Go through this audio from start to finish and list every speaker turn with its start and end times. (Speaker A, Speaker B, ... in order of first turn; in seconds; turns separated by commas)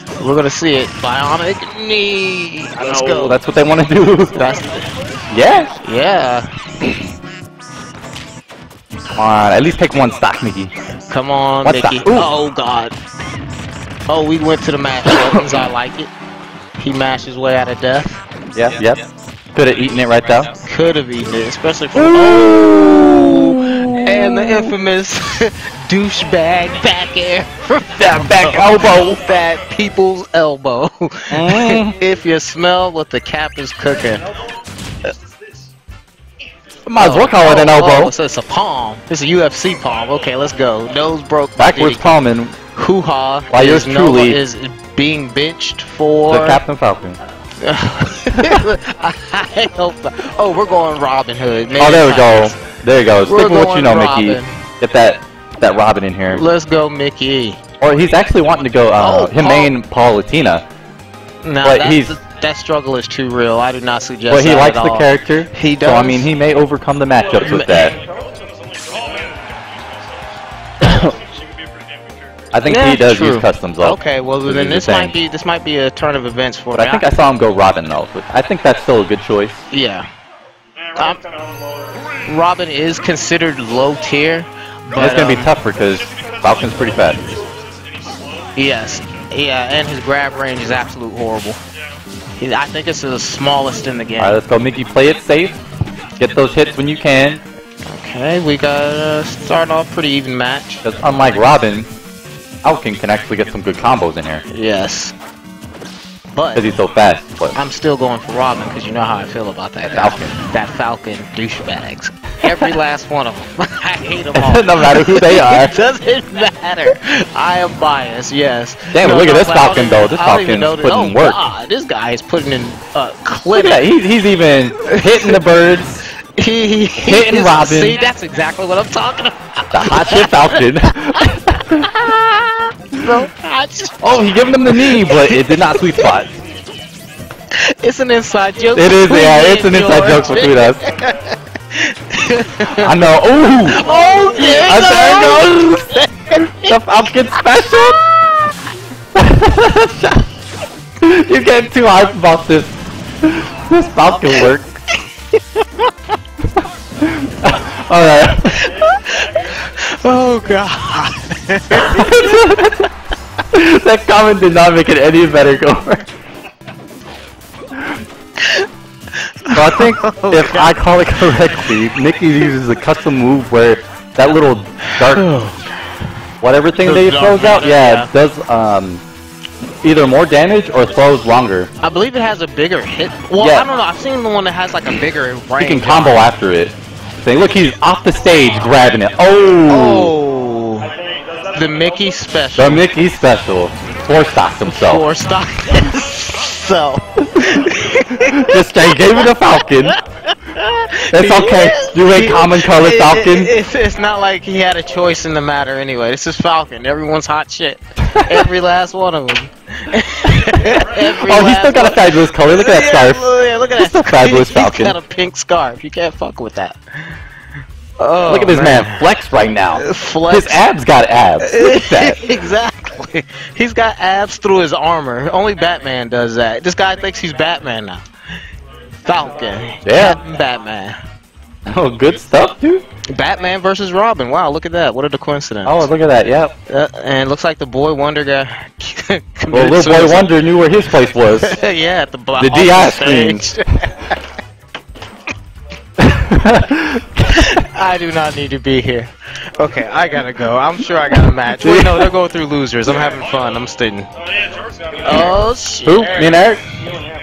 Speaker A: 0.2-3.4, Speaker B: 2.9-4.4, Speaker A: 4.3-4.9, Speaker B: 5.3-5.7, Speaker A: 5.8-6.5, Speaker B: 9.1-10.7, Speaker A: 11.1-12.9, Speaker B: 11.6-12.3, Speaker A: 14.1-16.1, Speaker A: 16.8-18.2, Speaker B: 18.6-19.0, Speaker B: 19.6-20.5, Speaker A: 20.7-34.2, Speaker B: 22.0-24.7, Speaker B: 28.0-29.2, Speaker B: 31.3-32.0, Speaker B: 36.9-38.1, Speaker A: 37.0-42.1, Speaker B: 41.6-42.5, Speaker A: 42.7-46.6, Speaker B: 43.5-44.4, Speaker B: 46.3-47.2, Speaker A: 47.6-52.6, Speaker B: 51.8-56.4, Speaker A: 53.2-54.5, Speaker A: 56.3-57.6, Speaker B: 57.8-60.6, Speaker A: 59.0-59.8, Speaker A: 61.4-66.3, Speaker B: 61.6-62.1, Speaker B: 64.3-68.0, Speaker A: 67.5-67.9, Speaker B: 70.8-71.1, Speaker B: 72.5-75.2, Speaker A: 72.7-77.1, Speaker B: 76.8-79.6, Speaker A: 79.7-80.1, Speaker A: 81.0-81.2, Speaker A: 82.2-85.5, Speaker B: 85.0-87.4, Speaker A: 88.6-91.6, Speaker A: 92.4-94.4, Speaker B: 94.2-95.6, Speaker B: 96.2-97.4, Speaker A: 97.9-100.8, Speaker B: 100.8-101.9, Speaker B: 102.6-104.4, Speaker A: 104.5-105.1, Speaker A: 106.3-106.7, Speaker B: 106.5-107.6, Speaker A: 107.5-123.9, Speaker B: 109.9-110.3, Speaker B: 114.3-115.8, Speaker B: 118.9-121.4, Speaker B: 123.5-126.0, Speaker A: 124.9-125.4, Speaker A: 126.4-130.7, Speaker B: 127.0-128.0, Speaker B: 129.7-131.9, Speaker A: 131.7-134.0, Speaker B: 134.0-136.3, Speaker A: 134.7-136.1, Speaker A: 137.6-142.9, Speaker B: 138.8-140.8, Speaker B: 142.8-148.1, Speaker A: 143.8-146.7, Speaker B: 149.2-150.3, Speaker B: 151.0-152.7, Speaker B: 153.2-154.7, Speaker A: 155.6-155.9, Speaker B: 157.0-158.6, Speaker A: 158.5-162.3, Speaker B: 161.7-162.9, Speaker B: 163.5-166.1, Speaker A: 168.4-168.7, Speaker A: 169.2-170.7, Speaker B: 169.5-175.3, Speaker A: 174.9-175.7, Speaker B: 176.4-179.0, Speaker A: 176.8-178.1, Speaker B: 179.8-181.7, Speaker A: 181.8-186.3, Speaker B: 183.4-183.7, Speaker B: 185.6-190.1, Speaker A: 189.7-190.9, Speaker A: 191.5-192.8, Speaker B: 192.6-195.1, Speaker A: 194.7-199.2, Speaker B: 198.2-199.9, Speaker A: 199.9-217.2, Speaker B: 201.1-203.5, Speaker B: 208.2-208.5, Speaker B: 210.7-215.0, Speaker A: 218.0-219.0, Speaker B: 218.3-222.2, Speaker A: 219.8-220.6, Speaker A: 221.4-228.0, Speaker A: 229.1-231.0, Speaker B: 229.8-230.2, Speaker B: 231.7-232.8, Speaker A: 233.1-235.9, Speaker B: 235.7-236.5, Speaker A: 236.7-240.3, Speaker B: 239.5-241.6, Speaker A: 241.3-244.2, Speaker B: 242.4-243.4, Speaker B: 246.0-247.4, Speaker A: 247.3-254.1, Speaker B: 251.6-252.1, Speaker A: 255.0-256.2, Speaker B: 255.9-256.6